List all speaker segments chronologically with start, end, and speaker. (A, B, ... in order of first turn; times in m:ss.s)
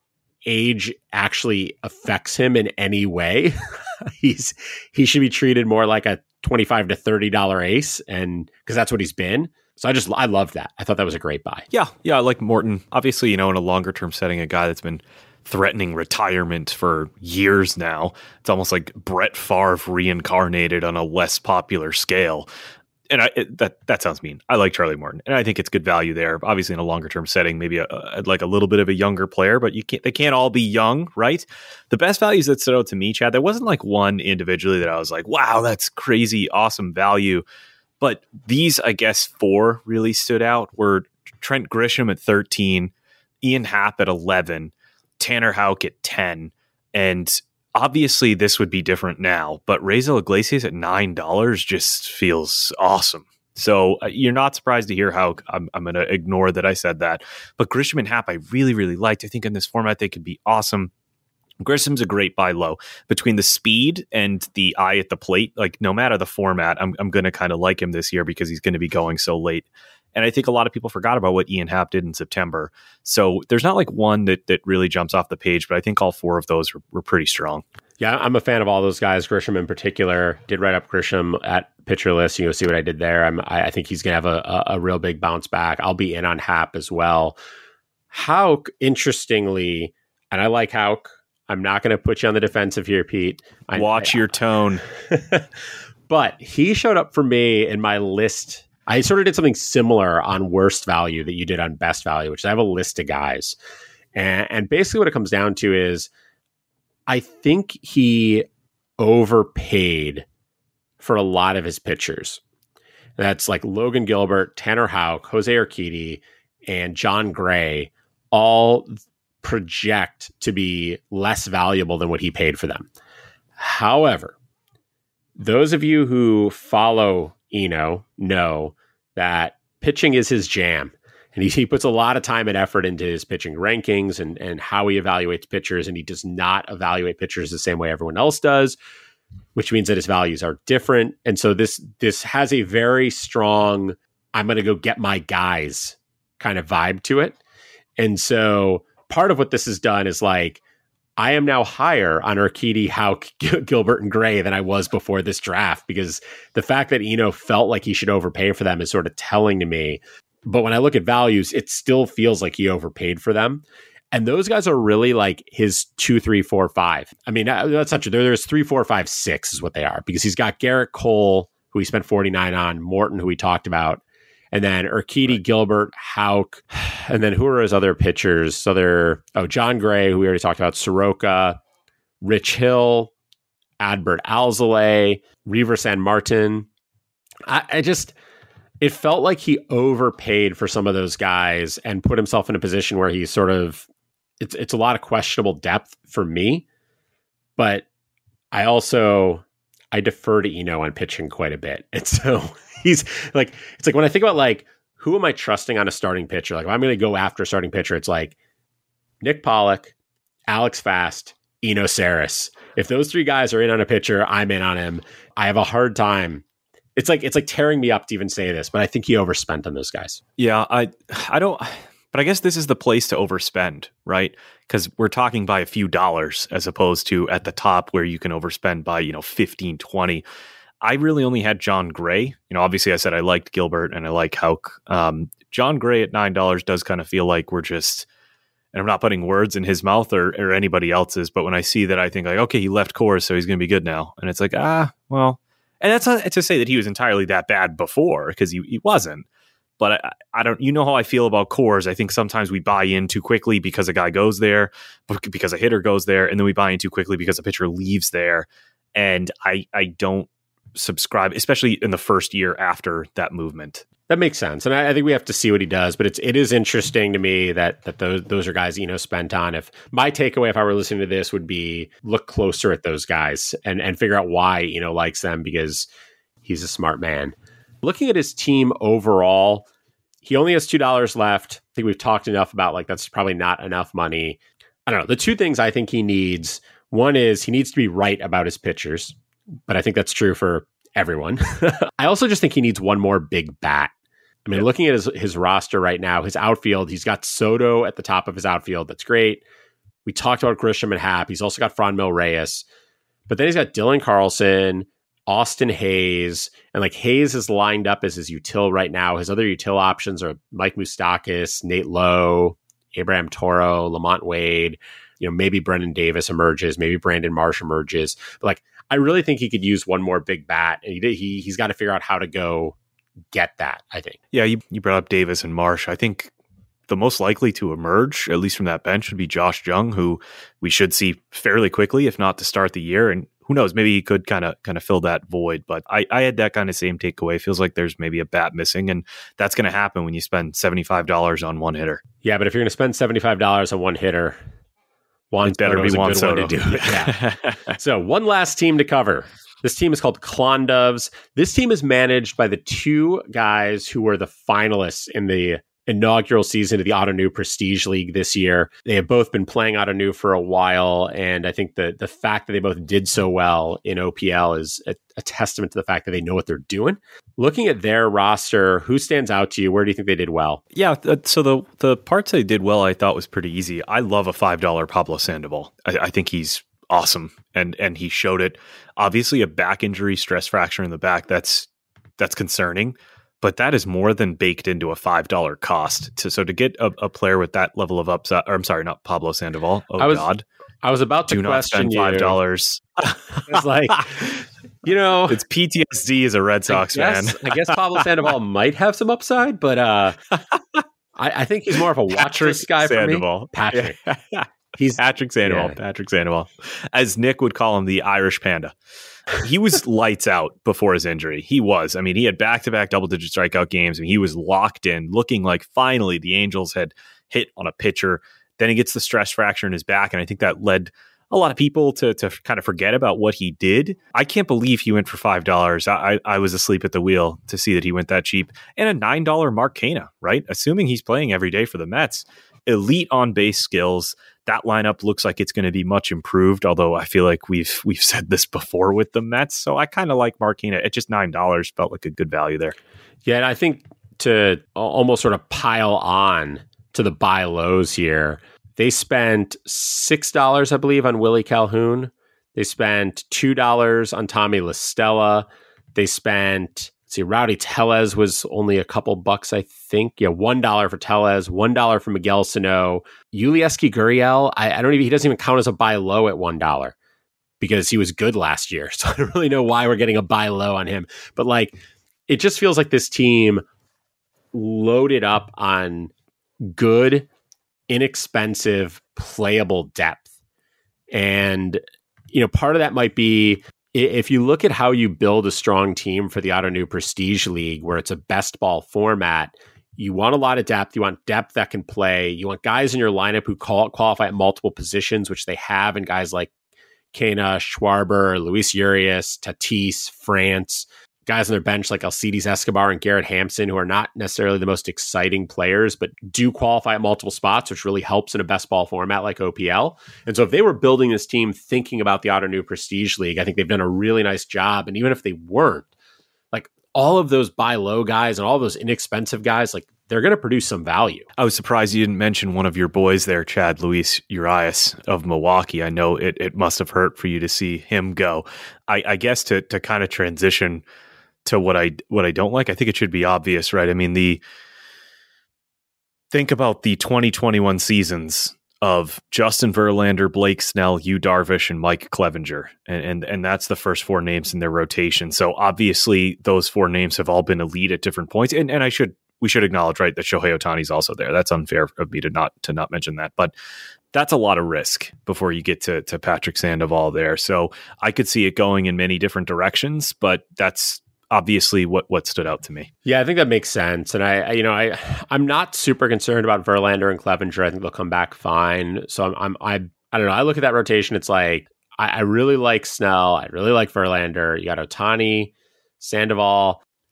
0:00.5-0:11.6 A
0:11.7-0:22.5 B
0:23.1-0:37.4 B
0:38.0-1:00.9 B
1:01.6-1:17.6 B
1:18.0-1:27.4 A
1:28.1-1:34.3 A
1:33.8-1:34.8 B
1:35.1-1:35.5 A
1:36.1-1:43.6 A
1:44.2-1:46.1 A
1:47.1-1:48.4 A
1:49.0-1:50.3 A
1:51.0-1:52.4 A
1:53.2-1:58.9 A
1:59.4-2:02.9 A
2:03.6-2:04.4 A
2:05.4-2:18.8 A
2:19.6-2:27.4 A
2:28.0-2:30.6 A
2:31.2-3:01.6 A
3:02.2-3:03.1 A
3:03.8-3:06.7 A
3:07.5-3:08.1 A
3:08.8-3:13.9 A
3:14.4-3:16.6 A
3:17.6-3:17.8 A
3:18.5-3:28.4 A
3:29.2-3:29.9 A
3:30.5-3:36.4 A
3:37.0-3:40.2 A
3:40.4-3:50.2 B
3:50.8-3:58.1 B
3:58.7-4:09.3 B
4:09.8-4:23.8 B
4:24.1-4:35.9 A
4:36.4-4:39.7 A
4:40.2-4:49.2 A
4:49.7-4:53.9 A
4:54.5-4:59.4 A
5:00.1-5:02.6 A
5:03.3-5:22.8 A
5:23.3-5:24.2 A
5:24.3-5:26.3 B
5:26.9-5:42.0 B
5:42.2-5:44.4 A
5:45.3-5:47.2 A
5:45.5-5:47.7 B
5:47.7-6:10.6 A
6:10.7-6:30.4 B
6:30.0-6:30.3 A
6:30.8-6:32.4 A
6:31.3-6:34.0 B
6:33.5-6:34.3 A
6:34.8-6:35.4 A
6:35.3-6:38.0 B
6:36.7-6:40.2 A
6:41.2-6:44.0 A
6:42.1-6:48.8 B
6:44.8-6:45.8 A
6:49.4-7:22.8 B
7:23.3-7:47.0 A
7:47.6-7:51.8 A
7:52.3-7:53.6 A
7:54.5-7:56.1 A
7:56.6-7:57.3 A
7:57.9-8:00.3 A
8:01.1-8:01.8 A
8:02.3-8:16.5 A
8:17.1-8:35.9 A
8:36.5-8:41.3 A
8:41.4-8:50.8 B
8:51.4-8:54.4 B
8:56.3-9:13.5 B
9:14.1-9:22.9 B
9:23.0-9:36.8 A